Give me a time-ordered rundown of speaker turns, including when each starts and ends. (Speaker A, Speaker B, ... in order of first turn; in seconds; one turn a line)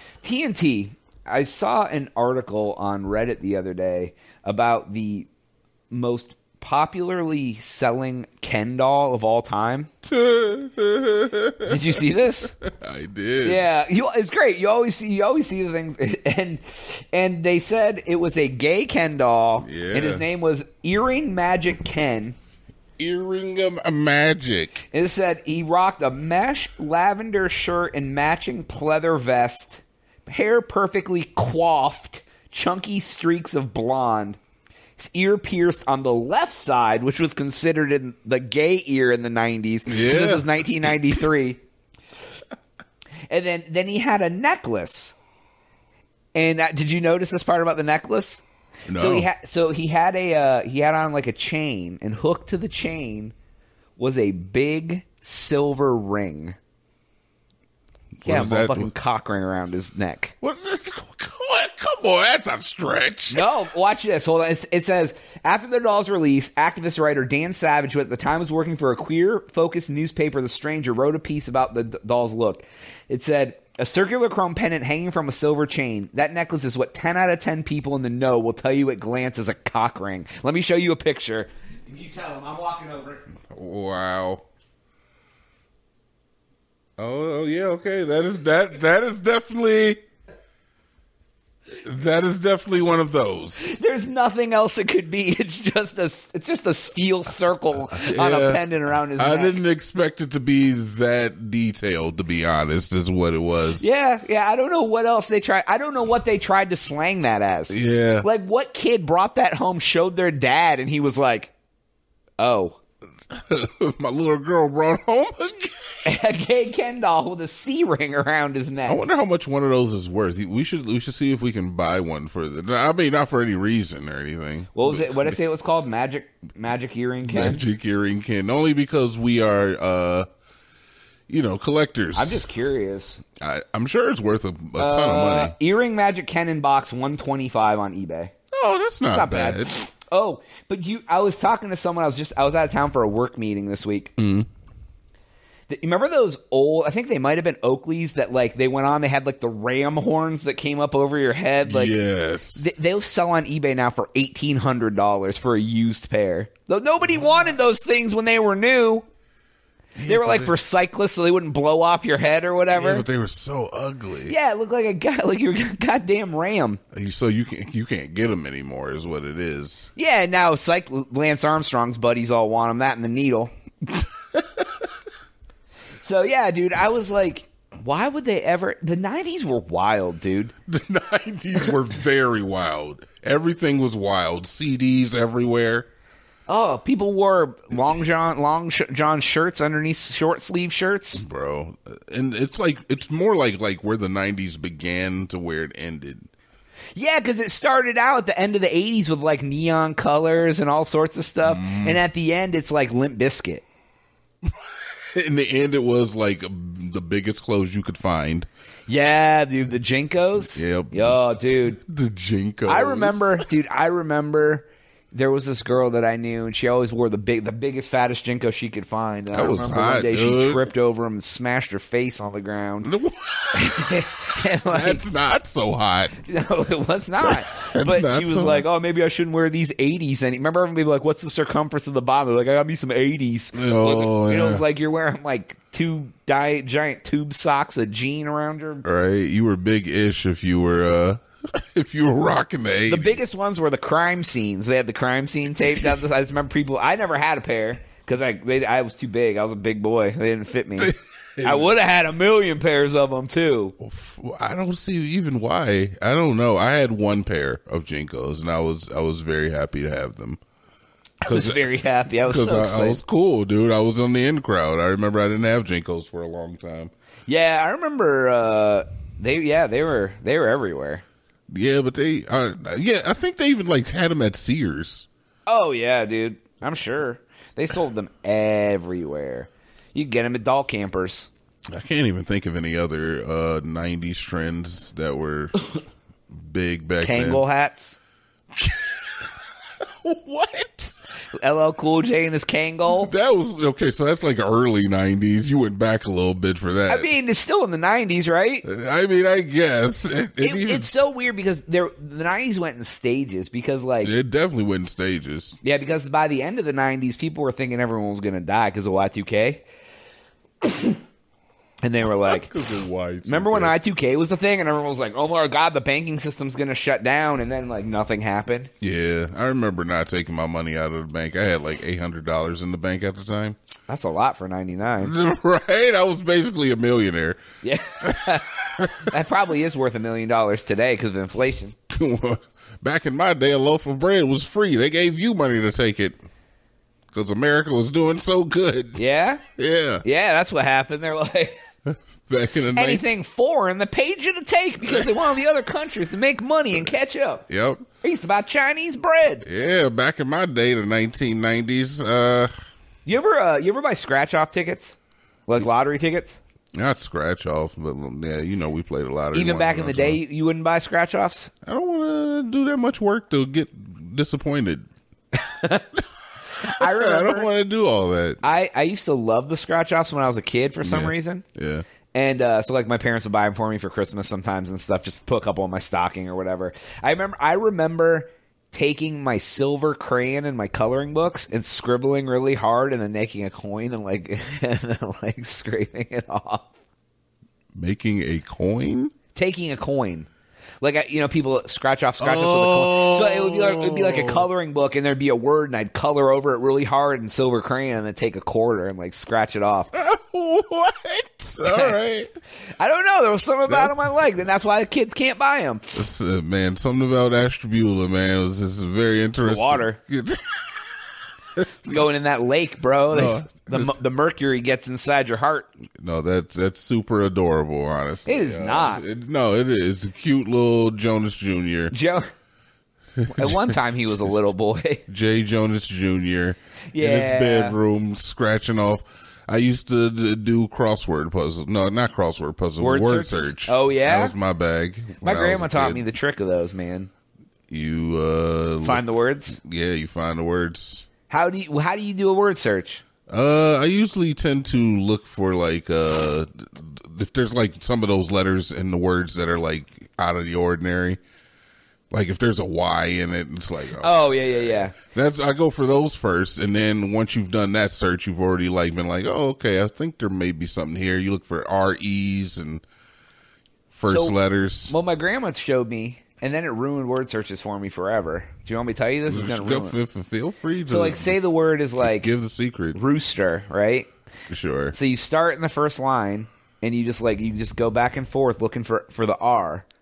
Speaker A: 0.2-5.3
Speaker A: 5.9-9.9
Speaker B: 10.0-12.0
Speaker A: 11.6-12.6
Speaker B: 12.6-13.6
Speaker A: 13.4-22.4
Speaker B: 19.6-20.2
Speaker B: 23.0-24.9
Speaker A: 24.9-34.4
Speaker A: 35.0-41.6
Speaker B: 39.9-41.2
Speaker A: 43.3-45.1
Speaker A: 46.3-48.4
Speaker B: 48.9-49.3
Speaker A: 48.9-53.3
Speaker A: 54.0-56.5
Speaker B: 58.2-58.9
Speaker A: 58.2-60.3
Speaker B: 60.4-63.5
Speaker A: 63.3-83.2
Speaker B: 83.5-84.4
Speaker B: 87.0-90.0
Speaker B: 91.8-93.8
Speaker A: 93.6-99.5
Speaker B: 97.9-98.6
Speaker B: 99.2-103.8
Speaker A: 103.8-111.5
Speaker B: 107.7-108.2
Speaker A: 112.4-112.8
Speaker B: 113.3-115.7
Speaker A: 116.0-119.0
Speaker B: 118.9-125.3
Speaker A: 124.7-127.6
Speaker B: 127.2-130.3
Speaker B: 131.3-132.4
Speaker A: 132.1-133.2
Speaker B: 133.4-135.5
Speaker A: 134.8-138.3
Speaker B: 138.5-139.8
Speaker A: 139.1-144.1
Speaker B: 144.2-144.5
Speaker A: 145.7-152.0
Speaker B: 151.6-152.7
Speaker A: 152.6-159.1
Speaker B: 159.9-160.5
Speaker A: 160.1-163.1
Speaker B: 162.7-164.3
Speaker A: 164.3-166.8
Speaker B: 166.9-169.9
Speaker A: 169.9-173.5
Speaker A: 176.0-180.5
Speaker B: 180.7-185.9
Speaker A: 186.5-191.2
Speaker B: 191.2-196.3
Speaker A: 196.9-203.6
Speaker B: 201.4-202.0
Speaker B: 205.1-208.5
Speaker A: 208.9-211.8
Speaker B: 210.6-213.4
Speaker A: 212.7-222.9
Speaker B: 219.3-220.7
Speaker B: 222.8-224.0
Speaker A: 223.5-225.0
Speaker B: 224.7-226.1
Speaker A: 226.2-238.8
Speaker B: 227.2-228.6
Speaker B: 233.5-234.6
Speaker B: 238.8-243.2
Speaker A: 242.9-253.7
Speaker B: 250.8-251.7
Speaker B: 253.8-260.4
Speaker B: 261.2-261.6
Speaker A: 261.2-263.0
Speaker B: 262.3-266.9
Speaker A: 267.3-271.0
Speaker B: 271.5-275.1
Speaker A: 275.4-281.3
Speaker B: 281.7-285.7
Speaker B: 286.3-287.4
Speaker A: 287.0-288.0
Speaker B: 288.5-289.0
Speaker B: 289.8-290.9
Speaker A: 291.4-293.1
Speaker B: 292.9-297.1
Speaker A: 296.9-298.6
Speaker B: 298.6-300.9
Speaker A: 300.4-304.1
Speaker B: 304.0-305.6
Speaker A: 305.6-309.6
Speaker A: 310.6-311.0
Speaker A: 311.8-312.5
Speaker B: 312.2-313.7
Speaker A: 313.3-318.7
Speaker B: 318.8-323.6
Speaker A: 323.9-325.1
Speaker B: 325.0-327.4
Speaker A: 327.6-331.8
Speaker B: 328.1-329.1
Speaker B: 331.9-336.2
Speaker B: 337.1-339.0
Speaker A: 338.9-339.4
Speaker B: 339.6-340.0
Speaker A: 340.0-341.6
Speaker B: 341.9-343.1
Speaker A: 342.7-347.4
Speaker B: 347.5-347.8
Speaker A: 348.0-349.4
Speaker B: 349.4-352.5
Speaker A: 353.1-356.4
Speaker B: 356.8-360.2
Speaker A: 359.3-361.5
Speaker B: 361.6-364.9
Speaker A: 365.3-365.9
Speaker B: 366.6-368.4
Speaker A: 366.8-367.5
Speaker A: 368.4-371.4
Speaker B: 370.8-371.9
Speaker A: 372.1-386.7
Speaker B: 387.7-389.1
Speaker A: 389.3-390.3
Speaker A: 390.8-399.9
Speaker B: 392.2-394.4
Speaker B: 399.9-402.3
Speaker A: 401.7-402.0
Speaker A: 402.8-405.9
Speaker B: 403.7-403.9
Speaker B: 405.9-410.8
Speaker A: 409.4-410.0
Speaker A: 411.8-415.7
Speaker B: 413.1-413.9
Speaker B: 416.0-421.9
Speaker A: 418.2-419.0
Speaker A: 421.9-422.3
Speaker B: 423.2-423.6
Speaker A: 423.3-425.0
Speaker B: 425.1-436.1
Speaker A: 426.9-427.8
Speaker A: 432.8-434.3
Speaker A: 435.2-437.1
Speaker B: 437.7-439.0
Speaker A: 438.8-439.6
Speaker B: 439.5-441.1
Speaker A: 441.3-443.0
Speaker B: 443.3-451.2
Speaker B: 452.1-462.8
Speaker A: 454.0-454.9
Speaker B: 463.9-464.9
Speaker A: 464.1-464.4
Speaker A: 464.9-470.0
Speaker B: 469.3-471.4
Speaker A: 470.9-472.3
Speaker B: 472.0-473.0
Speaker A: 472.9-474.1
Speaker B: 474.5-474.9
Speaker A: 474.9-479.9